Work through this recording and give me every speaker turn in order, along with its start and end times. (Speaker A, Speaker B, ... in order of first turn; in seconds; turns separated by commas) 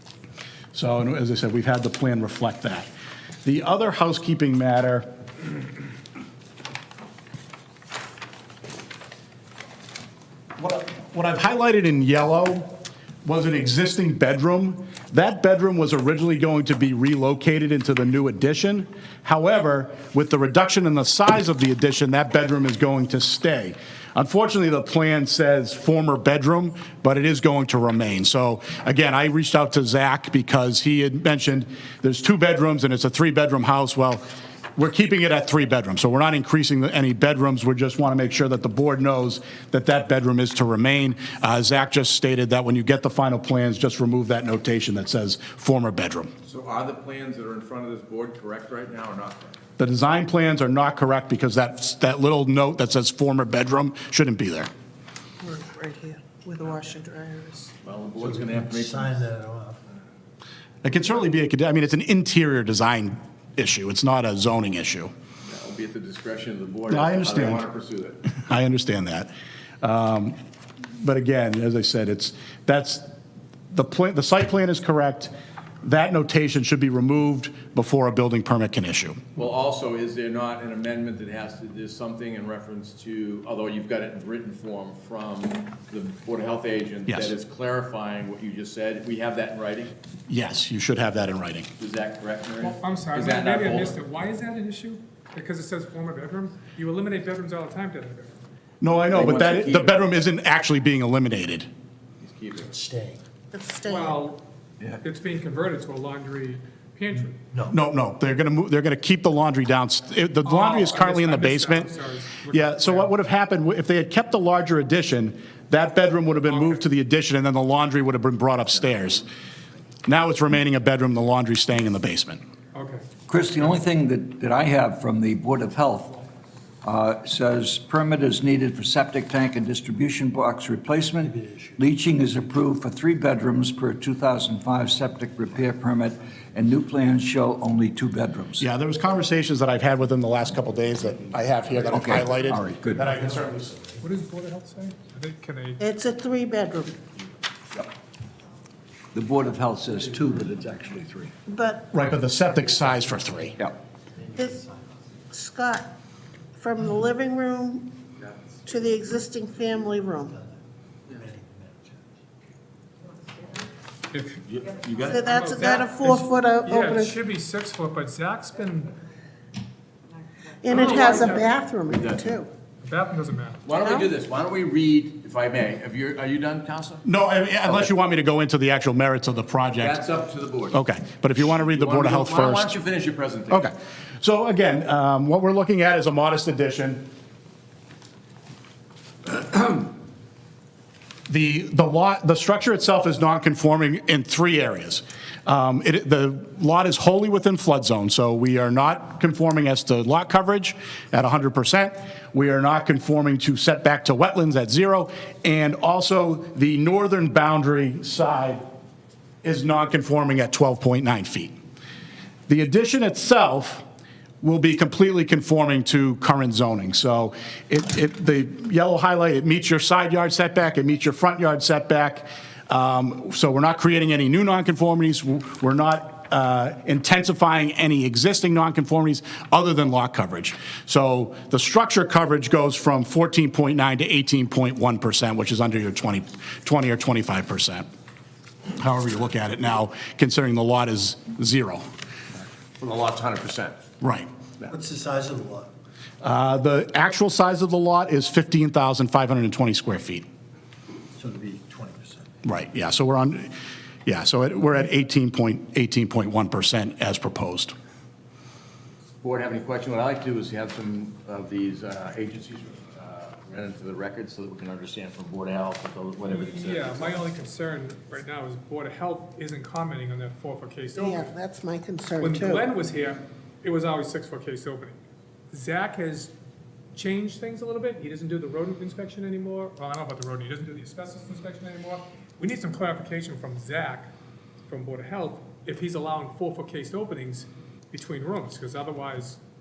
Speaker A: 0.7-2.9, Speaker A: 3.4-5.1, Speaker A: 10.6-34.2, Speaker A: 34.8-46.3, Speaker B: 46.5-49.6, Speaker A: 49.8-54.7, Speaker C: 55.4-57.7, Speaker B: 57.8-59.2, Speaker D: 58.2-59.8, Speaker A: 60.8-65.1, Speaker B: 65.5-68.2, Speaker A: 66.9-67.7, Speaker A: 68.3-69.3, Speaker A: 69.8-70.4, Speaker A: 71.0-73.1, Speaker A: 73.7-75.3, Speaker A: 75.8-79.2, Speaker B: 79.4-89.9, Speaker A: 87.1-87.3, Speaker A: 90.3-91.7, Speaker B: 91.8-94.0, Speaker E: 92.6-98.4, Speaker A: 98.8-101.7, Speaker B: 99.1-100.0, Speaker B: 102.2-102.7, Speaker D: 102.6-103.2, Speaker C: 103.5-104.2, Speaker E: 103.8-104.4, Speaker E: 105.0-107.4, Speaker D: 107.5-107.8, Speaker A: 107.7-111.9, Speaker E: 110.4-113.1, Speaker A: 112.5-119.3, Speaker E: 116.5-116.8, Speaker A: 120.1-122.4, Speaker E: 122.8-123.1, Speaker F: 123.3-126.2, Speaker F: 126.8-138.7, Speaker D: 131.2-131.8, Speaker A: 138.6-143.9, Speaker F: 141.9-143.1, Speaker E: 144.0-145.8, Speaker C: 145.8-147.0, Speaker F: 149.1-151.3, Speaker C: 151.5-151.9, Speaker A: 151.9-153.6, Speaker D: 154.3-154.9, Speaker C: 155.3-155.9, Speaker C: 156.6-158.0, Speaker B: 158.2-158.7, Speaker C: 158.7-160.4, Speaker D: 160.3-160.6, Speaker D: 161.1-162.0, Speaker E: 164.1-164.4, Speaker B: 164.4-165.4, Speaker C: 165.1-167.2, Speaker E: 165.3-168.9, Speaker C: 170.6-172.5, Speaker E: 170.7-171.4, Speaker B: 170.7-171.3, Speaker B: 171.9-172.3, Speaker E: 172.8-173.7, Speaker B: 173.7-177.0, Speaker C: 173.8-174.1, Speaker A: 177.1-180.0, Speaker B: 179.8-180.8, Speaker A: 180.7-182.8, Speaker B: 181.3-183.7, Speaker A: 183.5-187.1, Speaker A: 191.3-208.6, Speaker A: 209.4-211.5, Speaker A: 212.5-213.8, Speaker A: 214.4-237.9, Speaker A: 238.8-241.8, Speaker B: 242.8-243.8, Speaker A: 244.0-244.3, Speaker D: 244.7-245.7, Speaker A: 246.2-250.3, Speaker D: 251.2-252.2, Speaker A: 252.4-253.5, Speaker A: 254.1-257.8, Speaker B: 259.2-267.2, Speaker E: 266.3-271.3, Speaker C: 271.0-272.6, Speaker E: 272.2-275.0, Speaker E: 275.5-276.3, Speaker E: 276.9-284.1, Speaker E: 284.7-289.4